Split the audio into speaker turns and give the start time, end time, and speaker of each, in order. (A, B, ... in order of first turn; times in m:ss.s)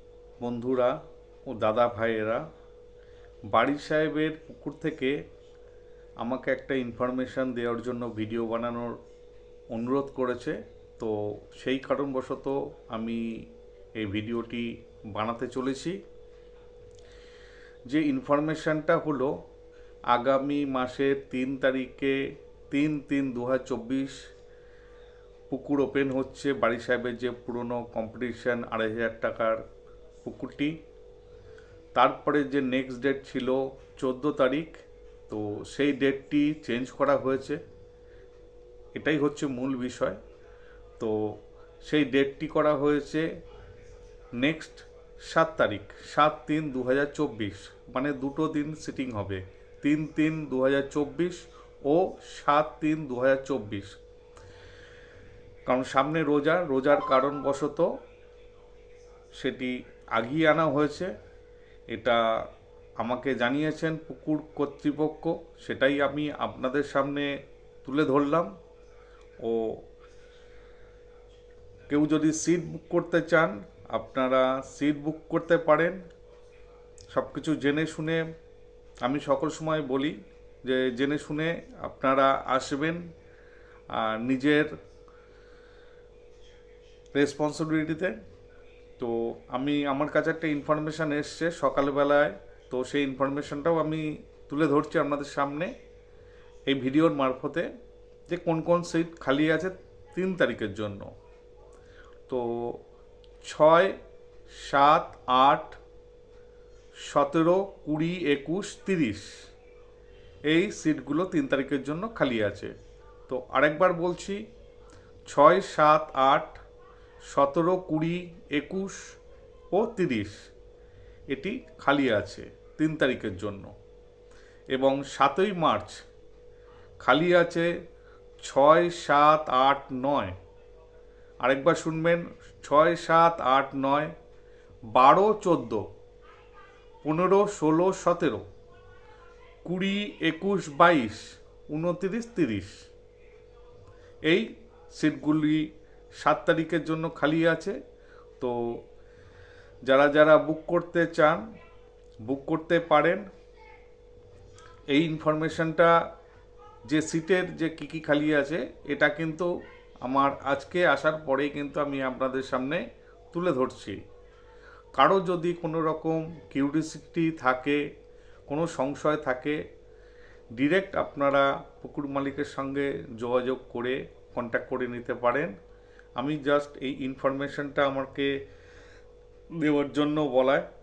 0:00.4-0:01.0 A
0:01.5-0:02.4 A
0:03.5-0:05.2 A
0:06.2-0:09.0 A
0:09.7-0:13.4 A
0:14.0-0:16.0 A
0:17.9-0:19.3 A
0:20.1-0:22.2 A
0:22.7-0:24.2 A
0:25.5-0:29.6 A
0:30.2-0:30.8 A
0:31.9-0:37.6 A
0:38.9-0:40.2 A
0:41.0-0:43.3 A
0:44.3-0:53.9 A
0:55.7-0:57.9 A
0:59.4-1:01.1 A
1:01.9-1:02.2 A
1:03.0-1:07.3 A
1:07.8-1:08.5 A
1:09.4-1:09.8 A
1:11.9-1:16.0 A
1:17.1-1:18.2 A
1:19.0-1:23.0 A
1:23.9-1:24.7 A
1:27.1-1:28.1 A
1:29.0-1:35.7 A
1:36.7-1:37.7 A
1:38.3-1:41.1 A
1:42.3-1:42.8 A
1:43.4-1:44.0 A
1:44.6-1:45.8 A
1:47.0-1:49.4 A
1:50.5-1:52.7 A
1:53.3-1:54.4 A
1:55.3-1:56.6 A
1:57.3-1:59.1 A
1:59.7-2:00.4 A
2:01.3-2:03.7 A
2:04.7-2:06.0 A
2:07.0-2:07.7 A
2:08.4-2:10.3 A
2:11.4-2:14.1 A
2:14.9-2:15.8 A
2:17.0-2:18.4 A
2:19.6-2:22.8 A
2:24.3-2:25.7 A
2:26.2-2:27.8 A
2:28.4-2:28.8 A
2:29.9-2:31.4 A
2:32.2-2:33.2 A
2:34.9-2:35.9 A
2:36.9-2:39.5 A
2:40.0-2:44.0 A
2:45.0-2:47.8 A
2:48.5-2:49.6 A
2:50.6-2:55.5 A
2:56.2-2:58.3 A
2:59.5-3:00.7 A